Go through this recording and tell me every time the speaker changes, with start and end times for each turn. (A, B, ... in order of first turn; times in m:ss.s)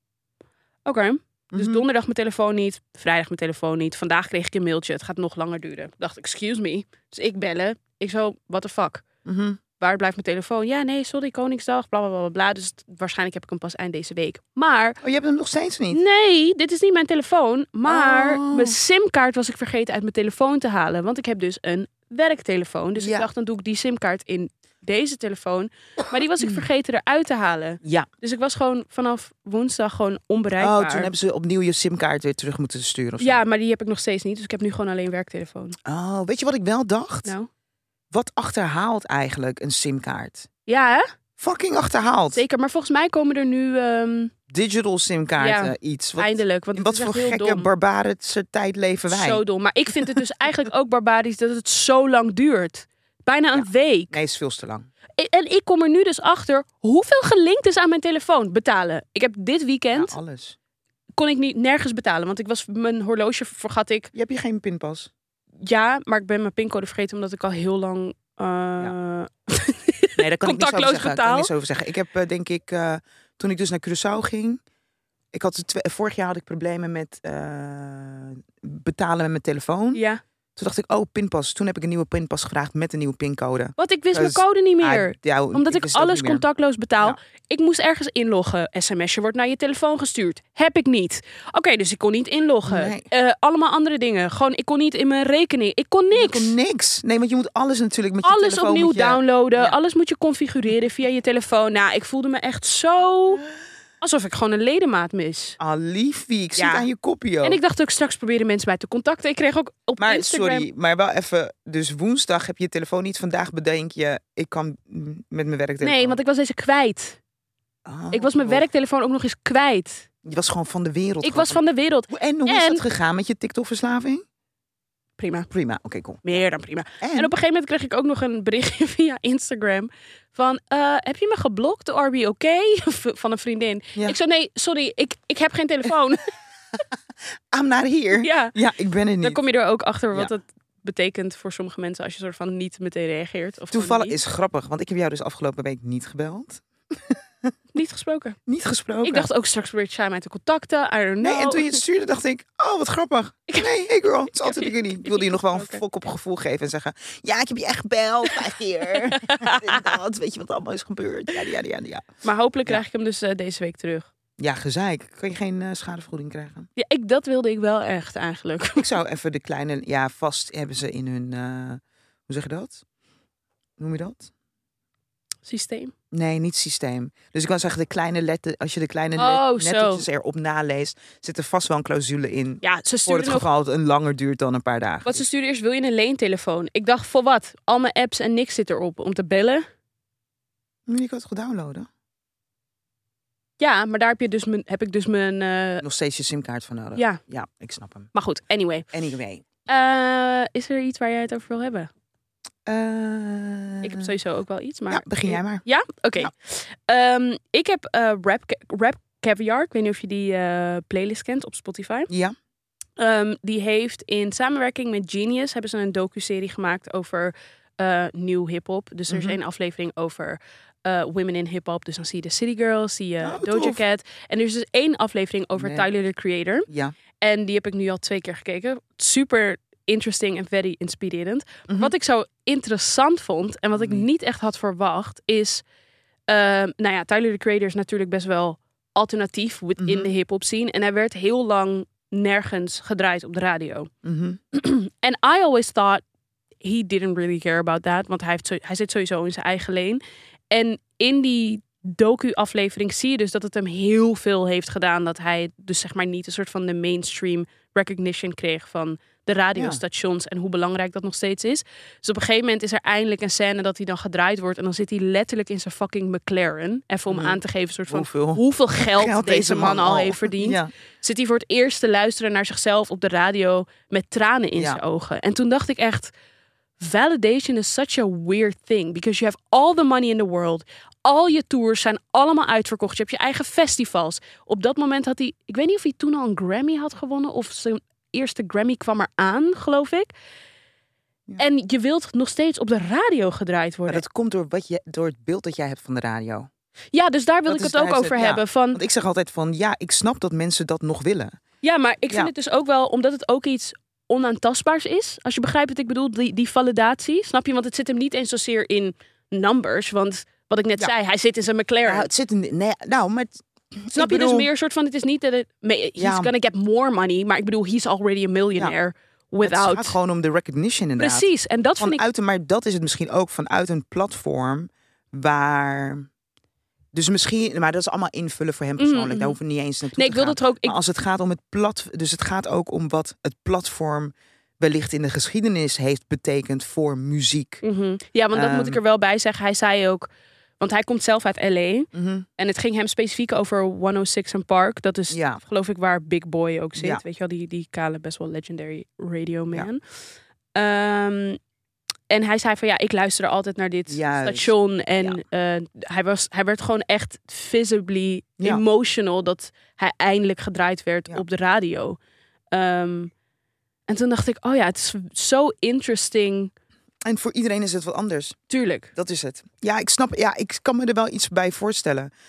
0:00.8-0:09.0 A
0:01.5-0:01.8 B
0:09.2-0:09.6 B
0:09.8-0:15.0 A
0:15.0-0:16.0 B
0:15.9-0:31.1 A
0:17.8-0:18.8 B
0:23.0-0:23.3 B
0:27.8-0:28.1 B
0:30.6-0:33.4 B
0:33.2-0:35.8 A
0:35.8-0:37.3 B
0:38.1-0:40.5 B
0:40.7-0:41.1 A
0:41.4-0:42.4 B
0:42.3-0:44.3 A
0:44.5-0:49.4 B
0:45.4-0:47.7 A
0:49.1-0:54.1 A
0:53.6-0:54.9 B
0:55.2-1:00.1 A
0:59.9-1:00.6 B
1:01.2-1:04.1 A
1:04.1-1:05.1 B
1:05.6-1:11.5 A
1:10.2-1:14.6 B
1:15.3-1:20.0 B
1:19.9-1:20.2 A
1:20.6-1:26.4 B
1:23.8-1:36.5 A
1:32.7-1:33.1 B
1:36.1-1:39.8 B
1:38.2-1:43.4 A
1:44.0-1:45.6 A
1:45.6-1:47.6 B
1:46.6-1:46.9 A
1:47.4-1:50.7 A
1:50.0-1:56.2 B
1:55.8-1:57.2 A
1:57.9-1:58.6 B
1:58.1-2:00.1 A
2:00.2-2:04.2 B
2:01.2-2:02.8 A
2:05.2-2:05.5 A
2:05.5-2:06.4 B
2:06.2-2:16.2 A
2:07.0-2:07.3 B
2:17.5-2:19.4 B
2:18.2-2:18.6 A
2:19.2-2:24.2 A
2:23.7-2:27.5 B
2:27.7-2:28.4 A
2:28.5-2:29.3 B
2:29.0-2:31.8 A
2:31.2-2:42.1 B
2:34.4-2:35.8 A
2:39.0-2:40.0 A
2:42.2-2:44.1 A
2:44.4-2:46.7 B
2:46.8-2:48.9 A
2:48.8-2:52.8 B
2:53.8-2:54.3 B
2:55.4-2:55.9 A
2:56.1-3:05.2 B
2:59.2-3:00.0 A
3:02.6-3:03.5 A
3:05.0-3:09.7 A
3:10.9-3:11.9 B
3:13.6-3:15.8 A
3:15.8-3:18.1 B
3:18.1-3:18.9 A
3:18.9-3:19.4 B
3:19.7-3:21.9 A
3:22.7-3:24.1 B
3:23.8-3:32.1 A
3:24.9-3:25.6 B
3:32.1-3:32.4 B
3:33.0-3:46.7 A
3:39.1-3:39.4 B
3:43.2-3:43.8 B
3:45.6-3:45.9 B
3:46.7-3:47.0 B
3:47.2-3:55.6 A
3:51.7-3:51.9 B
3:53.8-3:54.1 B
3:56.3-4:03.9 A
3:59.8-4:00.1 B
4:04.0-4:04.4 B
4:04.5-4:06.0 A
4:06.6-4:10.0 A
4:10.5-4:36.1 A
4:19.6-4:19.8 B
4:27.1-4:27.4 B
4:27.9-4:30.7 B
4:34.6-4:34.8 B
4:36.8-4:50.1 A
4:51.4-4:54.0 A
4:53.9-4:56.5 B
4:56.9-4:58.8 A
4:57.5-5:01.4 B
5:01.6-5:12.1 A
5:11.8-5:14.5 B
5:13.9-5:20.0 A
5:16.0-5:16.3 B
5:19.4-5:26.1 B
5:21.0-5:22.0 A
5:26.9-5:37.6 B
5:28.8-5:29.4 A
5:30.0-5:30.8 A
5:37.6-5:40.1 A
5:38.3-5:38.8 B
5:40.6-5:49.8 A
5:41.9-5:42.3 B
5:45.1-5:45.4 B
5:46.8-5:47.0 B
5:50.5-5:51.4 A
5:52.1-6:02.0 A
5:53.9-5:55.2 B
6:02.5-6:03.1 A
6:03.9-6:06.5 A
6:07.1-6:08.4 B
6:08.5-6:08.9 A
6:09.0-6:12.1 B